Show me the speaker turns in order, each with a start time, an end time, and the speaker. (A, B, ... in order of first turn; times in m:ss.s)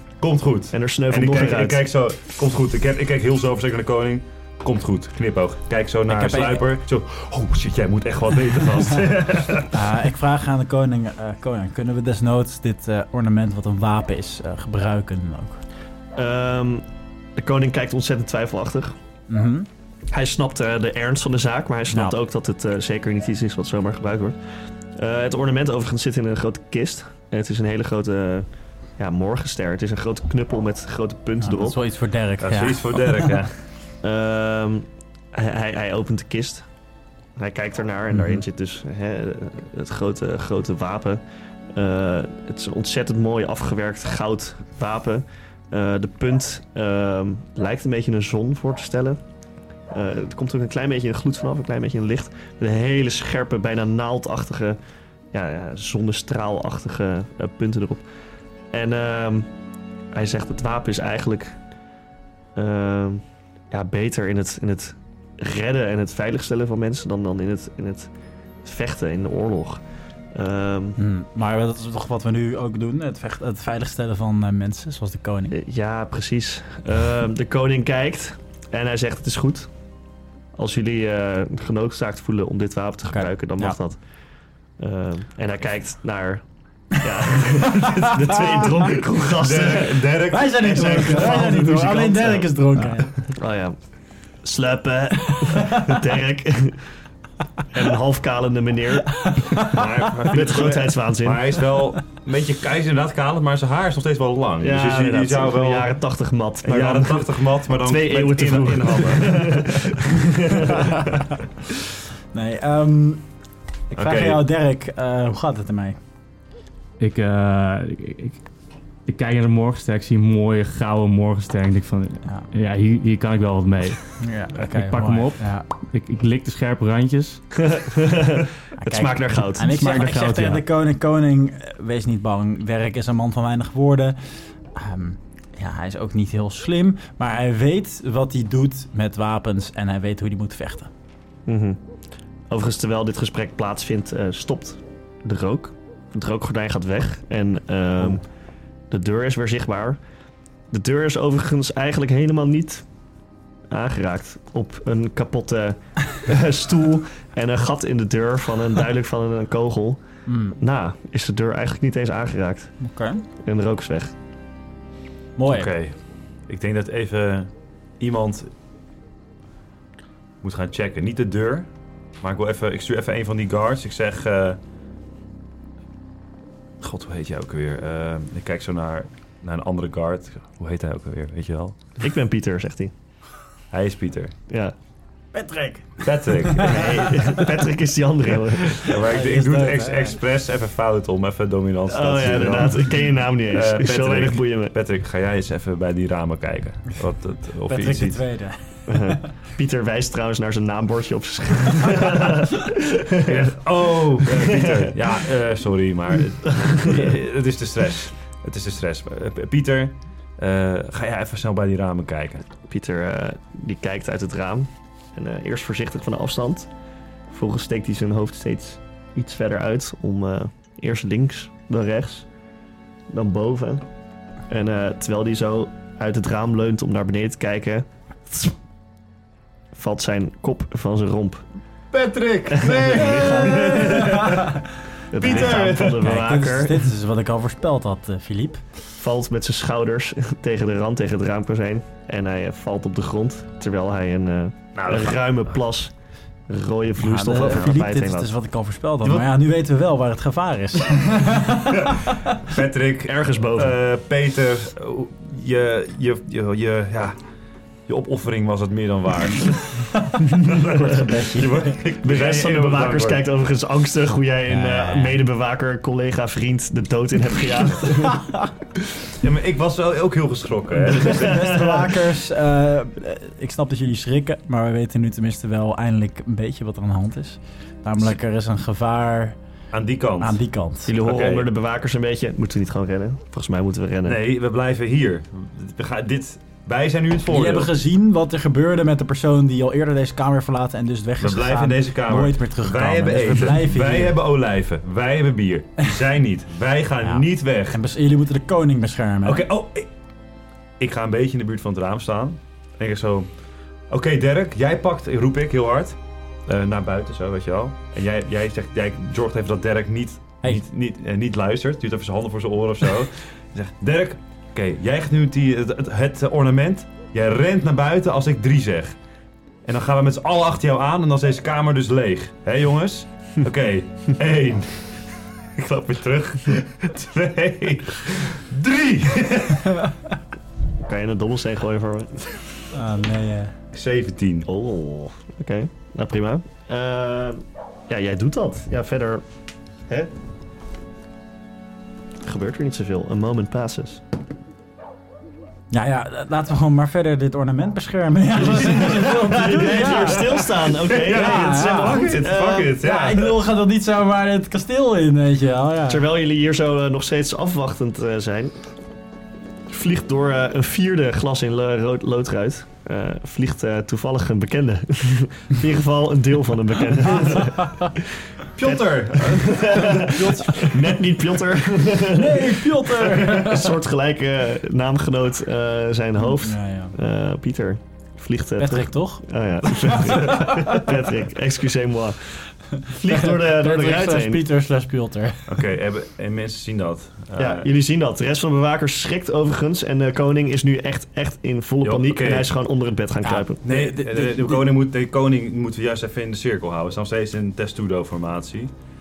0:00.2-0:09.9 A
0:00.7-0:01.8 B
0:06.1-0:06.6 C
0:09.6-0:15.6 C
0:16.1-0:19.0 B
0:19.3-0:19.7 C
0:20.1-0:24.4 B
0:21.9-0:22.2 C
0:25.0-0:28.5 B
0:29.0-0:31.8 B
0:31.4-0:33.4 C
0:32.4-0:33.6 A
0:34.0-0:36.6 B
0:37.4-0:41.2 B
0:38.1-0:38.4 C
0:41.7-0:49.2 B
0:49.9-0:54.8 B
0:55.3-0:58.0 B
0:58.7-0:59.5 B
1:00.1-1:01.6 B
1:02.5-1:08.1 B
1:08.6-1:09.8 B
1:10.3-1:11.0 B
1:11.0-1:15.6 C
1:15.5-1:19.7 B
1:20.5-1:24.0 B
1:23.1-1:23.8 C
1:24.8-1:26.4 B
1:26.9-1:30.1 B
1:27.6-1:28.4 C
1:29.2-1:31.6 A
1:30.3-1:33.1 C
1:30.8-1:32.5 B
1:33.3-1:33.8 B
1:34.4-1:36.8 B
1:35.3-1:36.0 C
1:37.7-1:39.3 B
1:39.1-1:40.3 C
1:39.6-1:45.9 A
1:40.3-1:41.5 B
1:44.6-1:51.1 B
1:46.6-1:50.0 A
1:50.9-1:51.2 C
1:52.3-1:53.2 C
1:53.9-1:54.4 A
1:53.9-1:56.0 C
1:57.0-1:58.4 D
1:59.0-2:07.4 D
2:04.2-2:05.6 C
2:07.5-2:09.9 B
2:08.8-2:14.2 C
2:09.7-2:10.6 D
2:14.7-2:20.9 C
2:21.5-2:21.8 B
2:22.5-2:28.2 B
2:28.9-2:30.0 B
2:30.7-2:32.8 B
2:33.7-2:40.0 B
2:40.3-2:40.6 C
2:40.6-2:42.7 B
2:42.8-2:43.2 C
2:43.4-2:44.1 B
2:45.4-2:45.7 C
2:45.5-2:46.0 A
2:46.5-2:48.5 A
2:50.4-2:51.6 A
2:52.2-2:54.6 A
2:56.8-3:01.8 A
3:02.0-3:02.9 B
3:03.7-3:04.3 A
3:04.5-3:04.7 B
3:05.3-3:07.5 C
3:06.0-3:07.2 A
3:06.6-3:08.8 B
3:08.6-3:10.2 C
3:08.8-3:18.2 A
3:11.9-3:14.7 B
3:17.6-3:19.3 C
3:18.9-3:23.5 B
3:23.2-3:32.4 A
3:24.2-3:25.2 B
3:26.4-3:27.1 B
3:32.7-3:36.7 B
3:37.3-3:42.2 B
3:43.1-3:43.8 B
3:44.5-3:48.5 B
3:49.7-3:51.4 B
3:51.9-3:54.6 A
3:52.5-3:54.3 B
3:53.5-3:54.6 C
3:55.1-3:56.9 B
3:55.1-3:56.1 A
3:55.2-3:58.6 C
3:59.0-4:05.9 B
4:04.7-4:05.4 A
4:06.5-4:08.3 B
4:07.0-4:12.2 C
4:11.6-4:17.1 A
4:13.0-4:13.8 B
4:17.9-4:23.2 A
4:19.9-4:21.8 C
4:22.0-4:28.2 B
4:24.5-4:25.2 C
4:29.2-4:31.8 A
4:30.9-4:39.4 C
4:31.0-4:31.8 B
4:39.7-4:40.4 A
4:40.2-4:40.9 C
4:40.8-4:44.2 B
4:41.0-4:41.5 A
4:44.0-4:47.7 A
4:47.3-4:54.2 C
4:51.2-4:57.8 A
4:57.0-4:59.4 C
4:59.2-4:59.9 A
5:00.8-5:03.3 A
5:03.9-5:18.9 A
5:19.6-5:25.0 A
5:25.5-5:29.8 A
5:30.8-5:32.3 B
5:32.7-5:33.5 C
5:33.7-5:34.5 A
5:34.4-5:39.2 B
5:42.2-5:44.0 B
5:45.7-5:56.1 C
5:48.4-5:52.8 B
5:48.8-5:53.4 A
5:55.9-5:58.5 B
5:59.7-6:08.0 B
6:07.2-6:07.5 A
6:07.3-6:07.9 C
6:08.6-6:10.6 A
6:08.6-6:24.4 B
6:09.5-6:10.7 C
6:12.0-6:13.8 C
6:16.2-6:16.9 C
6:18.6-6:20.9 C
6:22.8-6:25.6 C
6:25.5-6:27.7 A
6:27.4-6:33.6 B
6:31.8-6:32.5 A
6:33.2-6:34.7 C
6:33.6-6:38.7 A